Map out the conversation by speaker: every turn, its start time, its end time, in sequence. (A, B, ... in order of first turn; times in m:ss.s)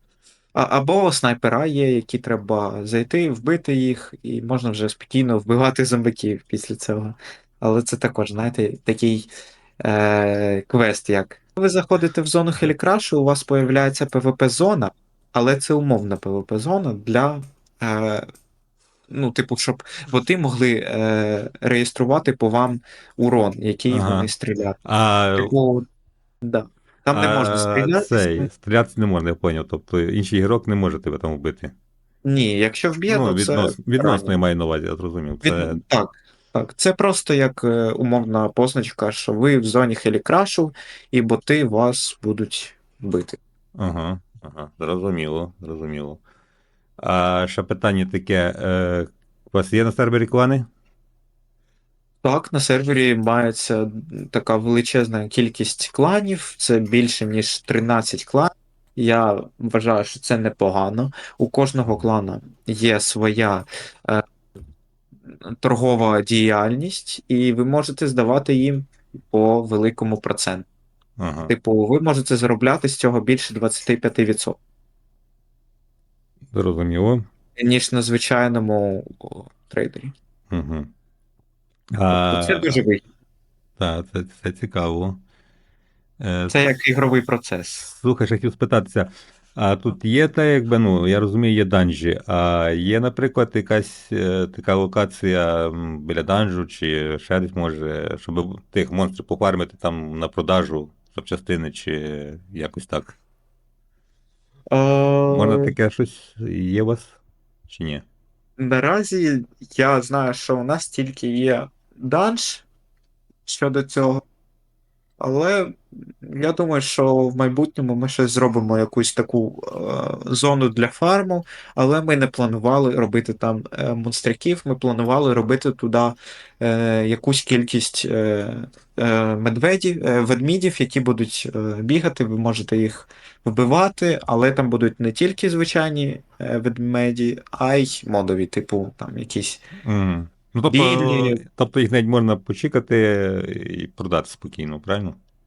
0:00.5-0:09.3 A
0:09.8-0:18.3 A
0:19.1-0:24.8 A
0:23.9-0:24.3 B
0:24.8-0:25.5 B
0:25.4-0:25.9 A
0:26.4-0:28.5 A
0:27.1-0:31.7 B
0:32.2-0:34.3 A
0:33.1-0:35.8 B
0:35.4-0:43.4 A
0:43.8-0:46.2 B
0:47.0-0:50.7 B
0:52.2-1:04.2 A
1:05.3-1:10.7 A
1:11.2-1:11.5 B
1:11.5-1:14.6 A
1:16.5-1:17.2 B
1:17.6-1:20.1 A
1:20.5-1:20.9 B
1:21.9-1:22.8 B
1:22.1-1:23.0 A
1:23.8-1:25.2 B
1:26.2-1:26.6 B
1:26.5-1:27.9 A
1:27.9-1:43.2 B
1:44.7-1:45.7 A
1:45.3-1:47.2 B
1:47.7-1:48.0 B
1:48.6-1:52.6 A
1:53.5-1:54.2 A
1:55.2-2:19.6 A
2:19.8-2:25.2 B
2:20.7-2:21.4 A